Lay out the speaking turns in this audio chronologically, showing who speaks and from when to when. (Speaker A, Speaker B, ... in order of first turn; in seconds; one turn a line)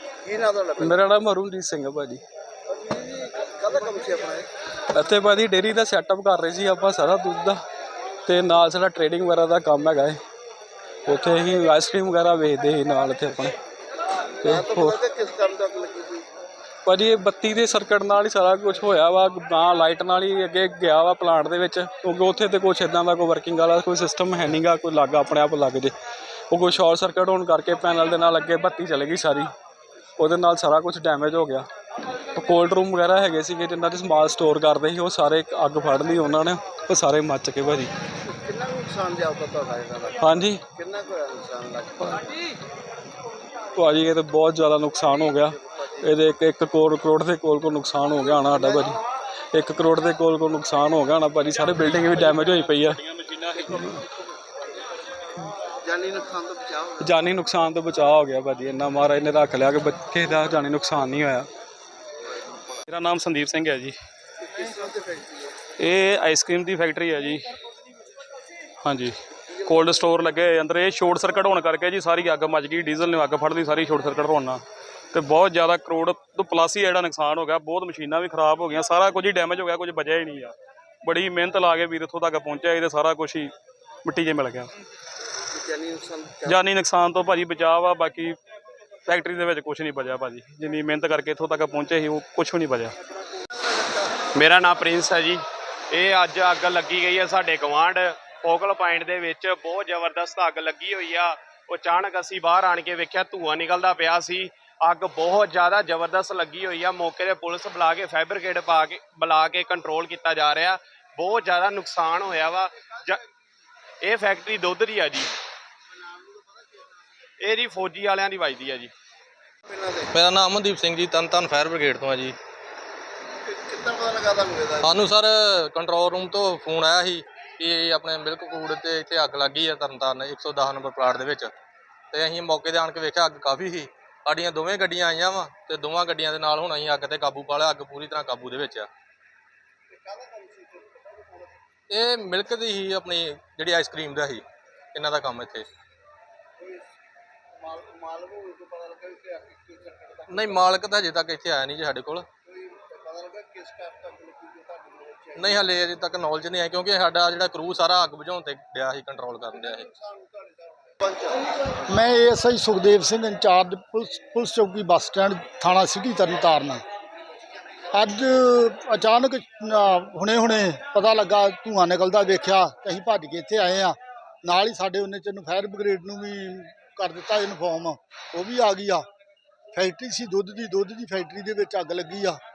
Speaker A: 0.2-0.9
Speaker B: 0.8-2.2
Speaker A: 2.7-4.5
Speaker B: 4.9-7.6
Speaker B: 8.2-10.2
Speaker B: 11.1-13.5
Speaker B: 14.4-15.0
Speaker A: 14.4-16.2
Speaker B: 16.8-25.9
Speaker B: 26.5-29.5
Speaker B: 30.2-31.6
Speaker B: 32.3-37.9
Speaker A: 38.2-40.2
Speaker B: 40.2-40.6
Speaker A: 40.7-42.1
Speaker B: 43.7-49.0
Speaker B: 49.5-53.0
Speaker C: 53.0-54.0
Speaker A: 55.8-57.0
Speaker B: 57.0-61.5
Speaker C: 62.9-63.9
Speaker A: 64.4-65.6
Speaker C: 65.8-67.4
Speaker C: 68.8-74.6
Speaker C: 75.1-83.5
Speaker C: 84.0-84.7
Speaker A: 85.5-86.5
Speaker C: 86.4-88.3
Speaker C: 89.1-92.9
Speaker D: 94.2-113.2
Speaker D: 114.0-115.3
Speaker A: 116.0-116.4
Speaker D: 117.4-118.9
Speaker A: 119.7-120.1
Speaker E: 120.1-122.3
Speaker A: 123.4-124.8
Speaker E: 124.8-131.5
Speaker E: 132.1-138.9
Speaker A: 139.9-141.6
Speaker E: 141.9-145.7
Speaker A: 146.6-146.9
Speaker A: 147.6-150.8
Speaker E: 150.3-152.3
Speaker A: 152.5-155.8
Speaker E: 155.3-159.8
Speaker A: 159.5-161.4
Speaker F: 161.9-166.8
Speaker F: 167.9-179.1
Speaker F: 179.7-182.4